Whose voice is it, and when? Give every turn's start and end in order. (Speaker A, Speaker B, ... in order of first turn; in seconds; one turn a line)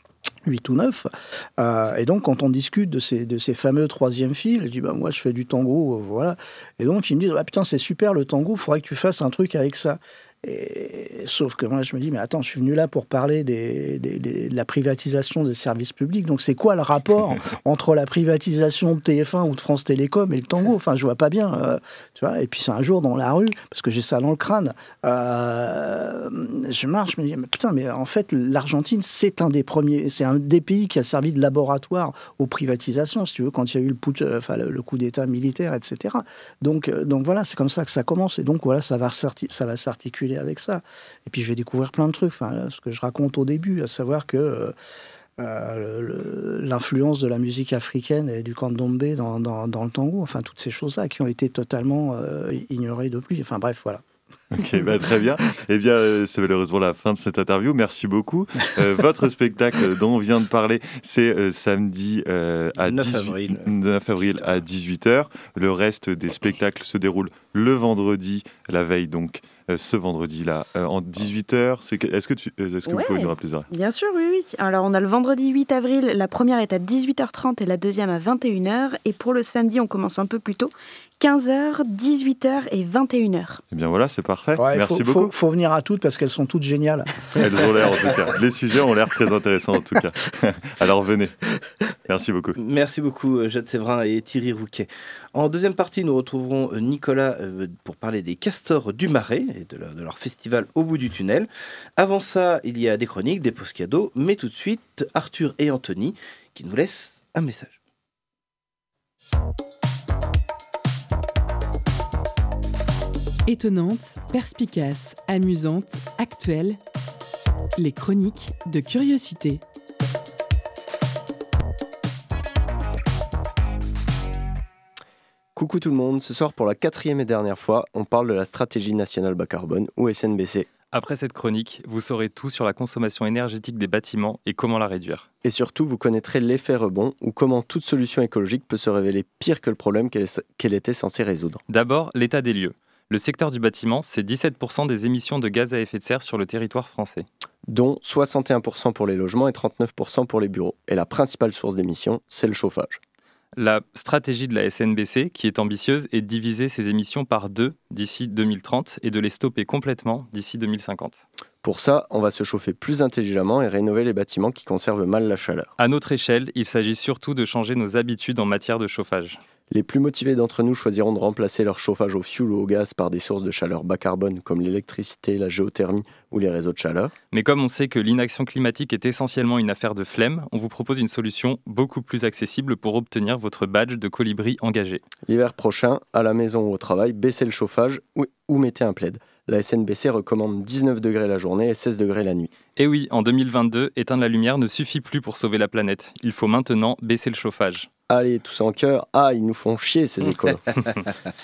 Speaker A: 0.4-44.7
Speaker A: 45.4-54.0
Speaker B: 54.5-73.7
Speaker C: 62.8-63.7
Speaker D: 72.8-83.6
Speaker B: 83.7-85.3
Speaker A: 84.6-87.4
Speaker B: 87.3-91.4
Speaker B: 92.0-92.5
Speaker C: 92.6-107.8
Speaker E: 113.5-116.8
Speaker E: 117.8-119.6
Speaker F: 125.5-130.7
Speaker G: 130.9-135.3
Speaker F: 135.4-141.6
Speaker G: 141.7-147.2
Speaker F: 147.7-153.0
Speaker G: 153.6-161.2
Speaker F: 161.6-165.7
Speaker G: 165.8-169.4
Speaker F: 169.7-177.1
Speaker G: 177.3-185.0
Speaker F: 185.2-192.6
Speaker G: 192.8-197.9
Speaker F: 198.1-200.6